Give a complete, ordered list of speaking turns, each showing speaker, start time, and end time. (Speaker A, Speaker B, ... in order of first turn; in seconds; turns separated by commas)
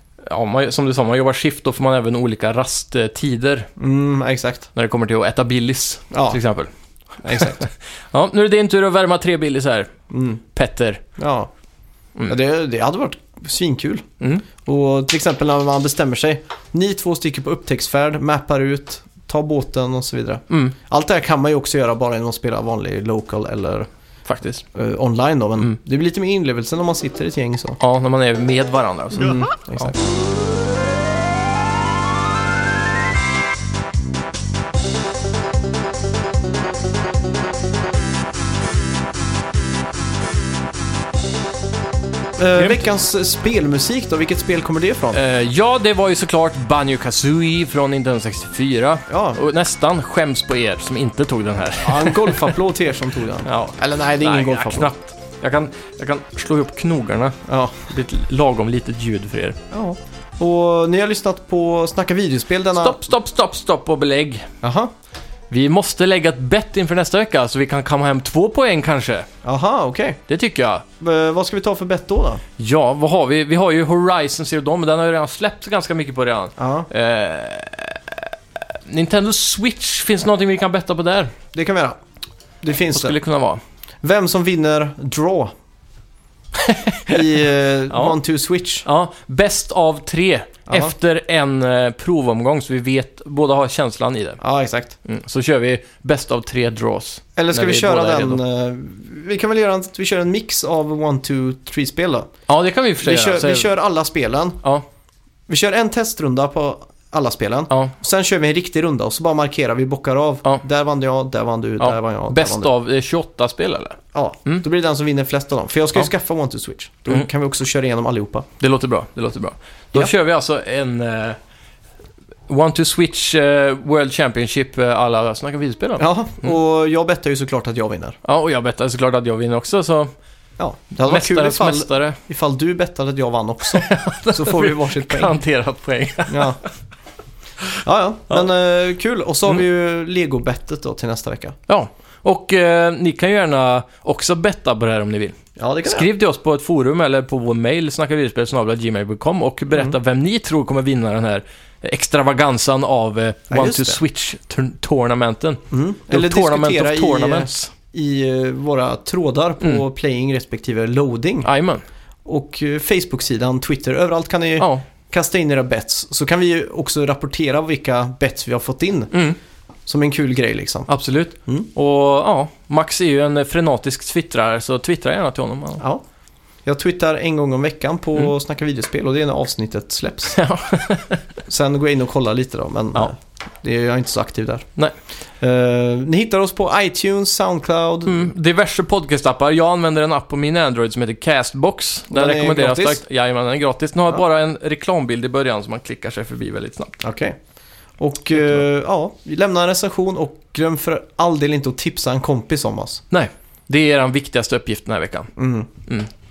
Speaker A: 0.2-3.7, Speaker B: 3.8-4.7, Speaker A: 4.8-6.7, Speaker B: 6.1-6.4, Speaker B: 7.2-7.7, Speaker A: 7.3-9.9, Speaker B: 10.1-10.4, Speaker A: 10.5-11.0, Speaker B: 11.2-11.5, Speaker B: 12.3-23.9, Speaker A: 14.2-14.5, Speaker A: 20.5-20.8, Speaker A: 24.3-24.6, Speaker B: 24.8-27.8, Speaker A: 27.8-29.9, Speaker B: 29.2-30.0, Speaker B: 42.4-45.2, Speaker A: 42.6-42.8, Speaker A: 45.1-52.6, Speaker B: 49.1-49.4, Speaker B: 51.8-54.9, Speaker A: 53.5-59.6, Speaker B: 57.5-57.8, Speaker B: 59.7-63.0, Speaker A: 62.7-64.5, Speaker B: 64.6-64.9, Speaker A: 65.5-69.3, Speaker B: 69.4-70.2, Speaker A: 70.3-70.8, Speaker B: 71.0-72.4, Speaker A: 72.6-78.3, Speaker B: 76.6-76.9, Speaker A: 78.9-81.3, Speaker B: 81.5-82.0, Speaker B: 82.6-83.2, Speaker A: 82.9-83.6, Speaker B: 84.0-85.5, Speaker A: 86.6-87.4, Speaker B: 87.1-88.9, Speaker A: 87.9-88.2, Speaker A: 88.8-94.4, Speaker B: 94.4-95.0, Speaker A: 95.0-98.4, Speaker B: 97.4-102.3, Speaker A: 102.5-103.7, Speaker B: 103.0-104.6, Speaker B: 105.5-112.7, Speaker A: 111.8-114.6, Speaker B: 114.1-118.5, Speaker A: 118.6-121.4, Speaker A: 122.5-126.5, Speaker B: 126.0-128.2, Speaker A: 128.2-130.1, Speaker B: 130.6-135.4, Speaker A: 131.0-132.2, Speaker A: 133.7-136.7, Speaker B: 136.3-136.6, Speaker B: 137.8-141.6, Speaker A: 141.7-157.7, Speaker B: 145.6-146.1, Speaker B: 153.5-154.0, Speaker B: 155.7-161.5, Speaker A: 161.4-161.8, Speaker B: 162.3-169.1, Speaker A: 164.6-164.8, Speaker A: 169.1-169.4, Speaker B: 169.9-170.9, Speaker A: 170.9-175.8, Speaker B: 176.7-180.4, Speaker A: 180.3-181.2, Speaker B: 181.5-184.7, Speaker B: 185.4-188.3, Speaker A: 188.1-197.0, Speaker B: 192.1-193.0, Speaker B: 197.0-197.4, Speaker B: 198.0-203.0, Speaker A: 203.1-205.3, Speaker B: 205.4-205.7